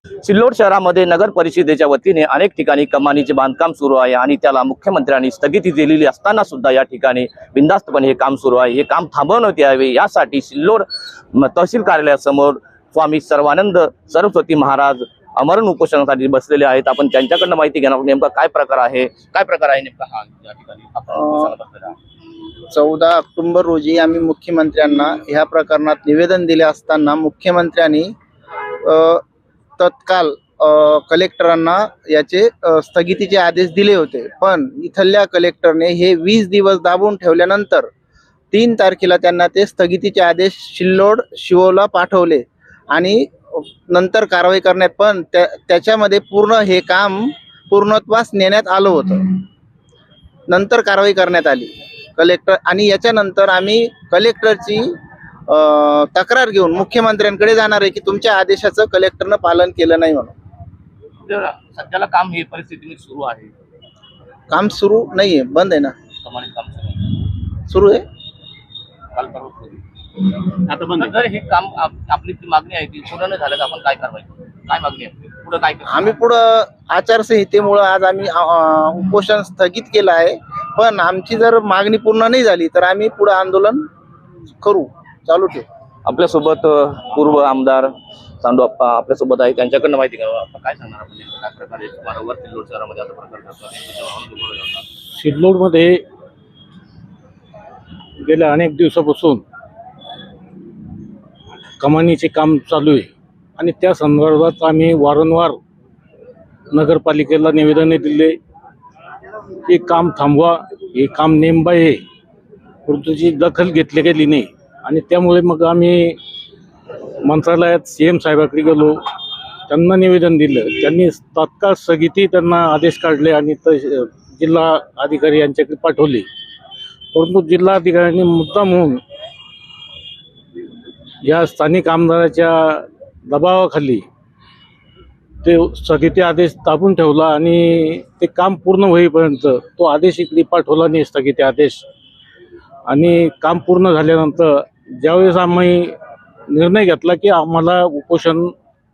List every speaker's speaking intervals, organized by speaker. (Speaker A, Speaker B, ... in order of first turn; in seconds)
Speaker A: 0.2-21.9, 61.2-63.5, 66.2-67.2, 69.1-76.2, 86.0-94.8
Speaker B: 21.1-21.5, 22.7-28.1, 28.8-29.2, 29.8-37.9, 38.5-49.4, 50.5-54.9, 55.5-60.3, 64.5-65.9, 67.7-68.0, 75.9-83.8, 84.6-85.6
Speaker C: 95.2-96.0, 98.2-99.4, 101.8-105.6, 106.7-108.4, 109.7-112.0, 112.8-116.2, 117.3-119.0, 119.7-126.3, 127.1-129.0, 131.2-134.0, 135.4-141.8, 142.9-145.9, 146.5-148.5